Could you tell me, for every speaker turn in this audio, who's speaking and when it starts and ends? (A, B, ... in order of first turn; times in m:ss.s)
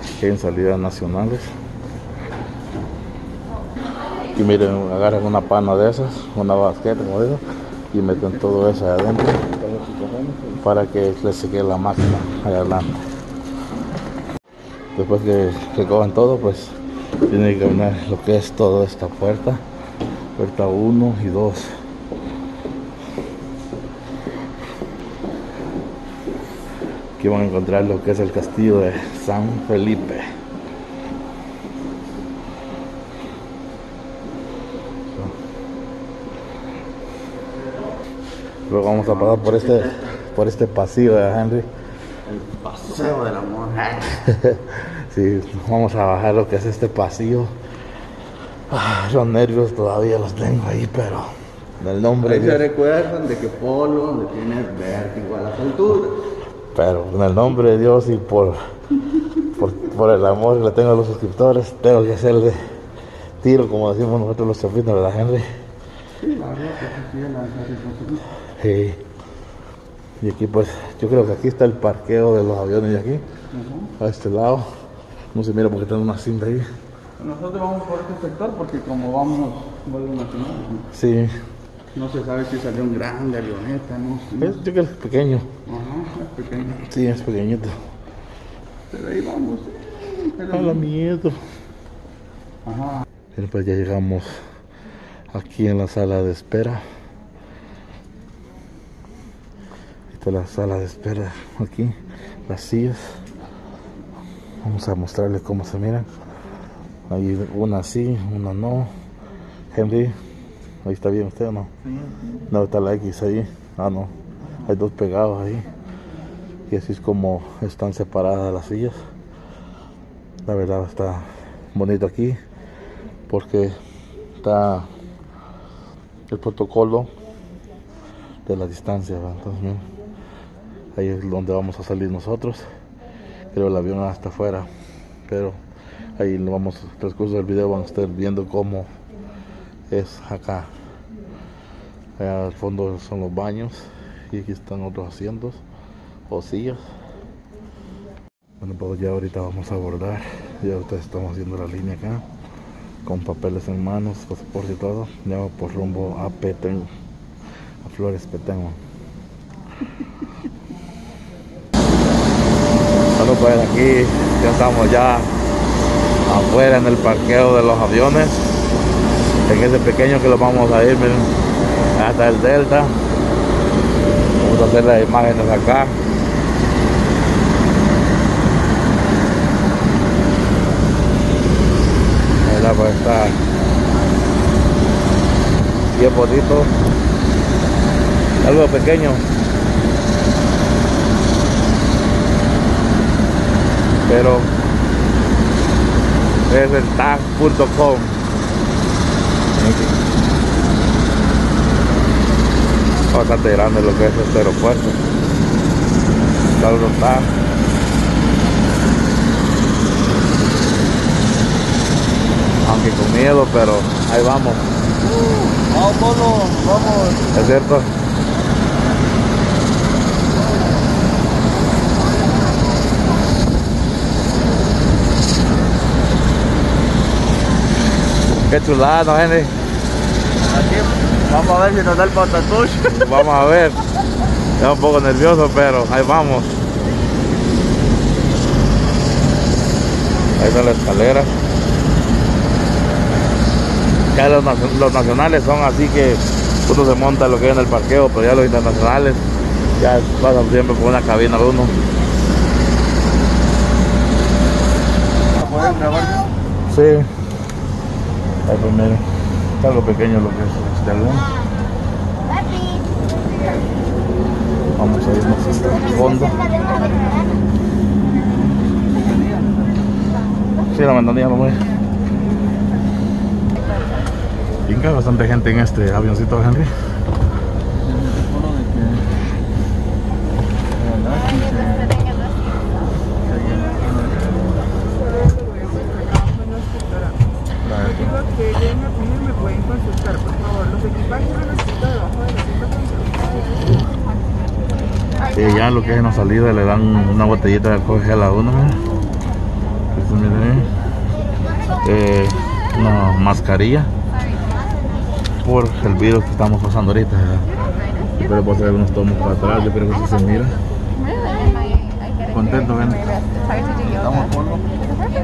0:00.2-0:01.5 A
0:04.3-0:07.4 A
0:07.9-0:09.5 A
0:09.6-0:10.5 B
0:10.5-0:12.9 A
0:15.0-0:16.8 A
0:17.3-0:19.6 A
0:20.4-0:21.7 A
0:27.2-0:30.2 A
0:38.7-0:41.7 A
0:42.3-0:44.2 B
0:44.1-0:47.5 A
0:48.7-0:52.6 A
0:52.2-0:56.2 B
0:56.7-0:58.6 A
0:59.4-1:02.6 A
1:03.4-1:05.4 A
1:06.2-1:08.2 B
1:08.6-1:09.0 A
1:10.2-1:13.2 A
1:13.5-1:13.9 B
1:14.0-1:14.7 A
1:15.3-1:16.7 A
1:17.2-1:20.9 B
1:20.9-1:21.3 A
1:22.0-1:24.6 B
1:24.4-1:25.5 A
1:25.7-1:26.8 B
1:26.6-1:27.7 A
1:28.9-1:30.8 B
1:30.5-1:31.4 A
1:32.7-1:33.0 B
1:33.3-1:34.3 A
1:35.3-1:36.8 A
1:40.1-1:42.0 A
1:42.5-1:43.0 A
1:44.6-1:46.1 A
1:47.1-1:48.9 A
1:49.7-1:50.1 A
1:50.8-1:51.7 A
1:51.9-1:52.2 B
1:52.5-1:55.7 A
1:56.7-1:59.0 A
2:00.5-2:02.4 A
2:03.3-2:03.8 A
2:04.4-2:04.9 A
2:06.3-2:07.1 A
2:08.5-2:09.8 A
2:11.0-2:12.6 A
2:13.5-2:14.7 A
2:15.3-2:15.6 A
2:16.2-2:18.9 A
2:19.9-2:20.7 A
2:22.2-2:25.6 A
2:26.3-2:26.8 A
2:28.6-2:32.2 A
2:33.0-2:36.9 A
2:37.8-2:38.8 A
2:43.2-2:45.3 A
2:46.3-2:48.4 A
2:49.5-2:51.3 A
2:52.0-2:52.9 A
2:54.4-2:56.0 A
3:02.4-3:03.4 A
3:05.9-3:06.7 A
3:08.4-3:09.3 A
3:14.1-3:14.5 A
3:16.5-3:18.2 A
3:19.6-3:20.0 A
3:23.1-3:25.0 A
3:26.6-3:27.3 A
3:32.6-3:34.6 A
3:35.0-3:37.6 B
3:37.3-3:37.9 A
3:48.5-3:49.5 A
3:50.4-3:53.3 B
3:52.9-3:53.8 A
3:54.6-3:56.6 A
4:00.4-4:01.3 A
4:04.1-4:09.3 A
4:09.8-4:11.7 A
4:15.3-4:16.3 B
4:16.7-4:17.1 A
4:18.5-4:19.0 A
4:19.6-4:21.3 A
4:24.8-4:26.4 A
4:26.7-4:27.2 B
4:28.7-4:30.2 B
4:30.7-4:31.6 A
4:34.7-4:36.7 A
4:37.7-4:39.0 B
4:40.8-4:42.1 B
4:43.2-4:44.5 B
4:45.4-4:46.4 B
4:47.6-4:48.5 A
4:49.0-4:49.7 B
4:55.3-4:58.8 A
4:59.9-5:00.7 A
5:01.8-5:03.9 A
5:05.4-5:07.5 A
5:08.2-5:10.6 A
5:12.3-5:13.2 A
5:13.7-5:14.7 B